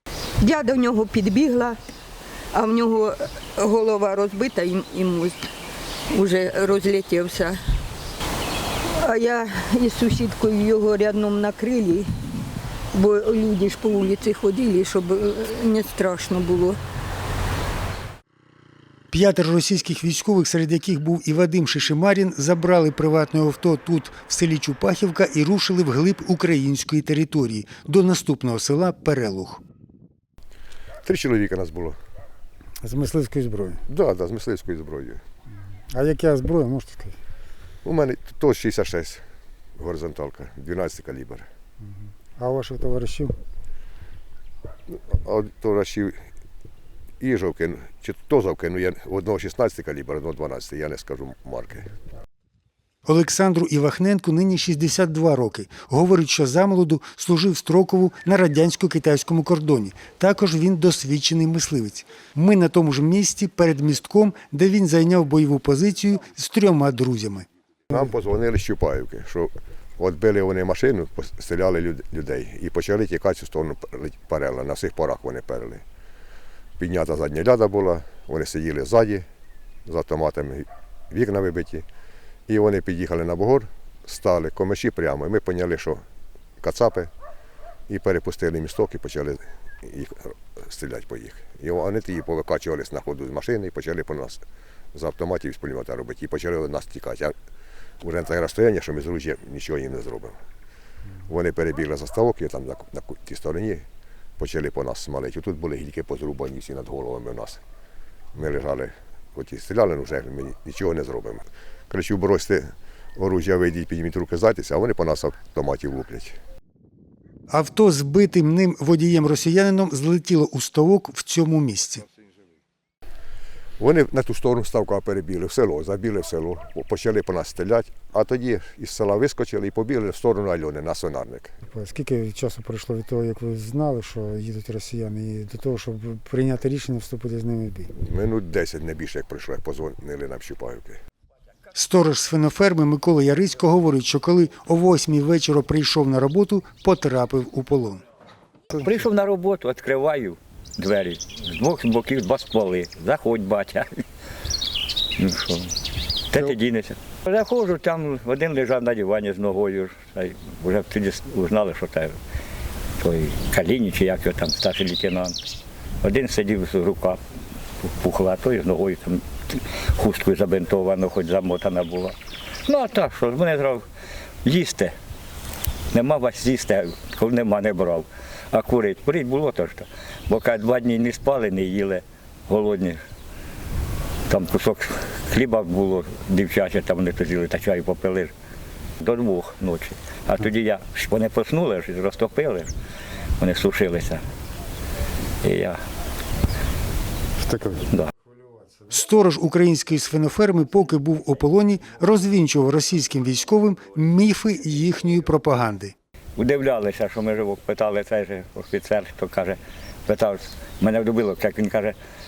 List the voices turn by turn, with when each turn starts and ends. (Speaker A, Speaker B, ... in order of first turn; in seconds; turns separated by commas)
Speaker A: 0.4-1.8, Speaker A: 2.5-5.5, Speaker A: 6.1-7.6, Speaker A: 8.8-12.1, Speaker A: 12.9-16.8, Speaker B: 19.1-29.6, Speaker C: 31.1-32.0, Speaker B: 32.8-33.8, Speaker C: 33.9-35.2, Speaker B: 35.9-37.2, Speaker C: 37.8-39.2, Speaker C: 39.8-41.5, Speaker B: 42.4-43.3, Speaker C: 44.9-46.2, Speaker C: 47.2-51.9, Speaker B: 53.0-67.5, Speaker C: 67.9-75.8, Speaker C: 76.8-79.2, Speaker C: 79.9-81.8, Speaker C: 82.5-86.0, Speaker C: 86.6-87.1, Speaker C: 87.9-94.4, Speaker C: 94.9-97.4, Speaker C: 98.0-100.4, Speaker C: 101.2-103.9, Speaker C: 104.4-107.6, Speaker C: 108.3-116.4, Speaker B: 117.5-122.0, Speaker C: 123.8-131.6, Speaker B: 131.7-137.9, Speaker C: 137.9-141.0, Speaker B: 141.8-148.0, Speaker D: 148.8-154.0, Speaker D: 155.2-155.7, Speaker D: 156.3-162.1, Speaker D: 163.0-165.4, Speaker D: 166.0-167.2, Speaker D: 167.8-173.8, Speaker D: 174.4-174.9, Speaker D: 175.9-183.0, Speaker D: 184.3-188.3, Speaker D: 189.0-192.7, Speaker D: 193.4-194.2, Speaker D: 195.4-195.8, Speaker B: 197.4-197.8, Speaker B: 198.9-205.9, Speaker D: 206.4-211.9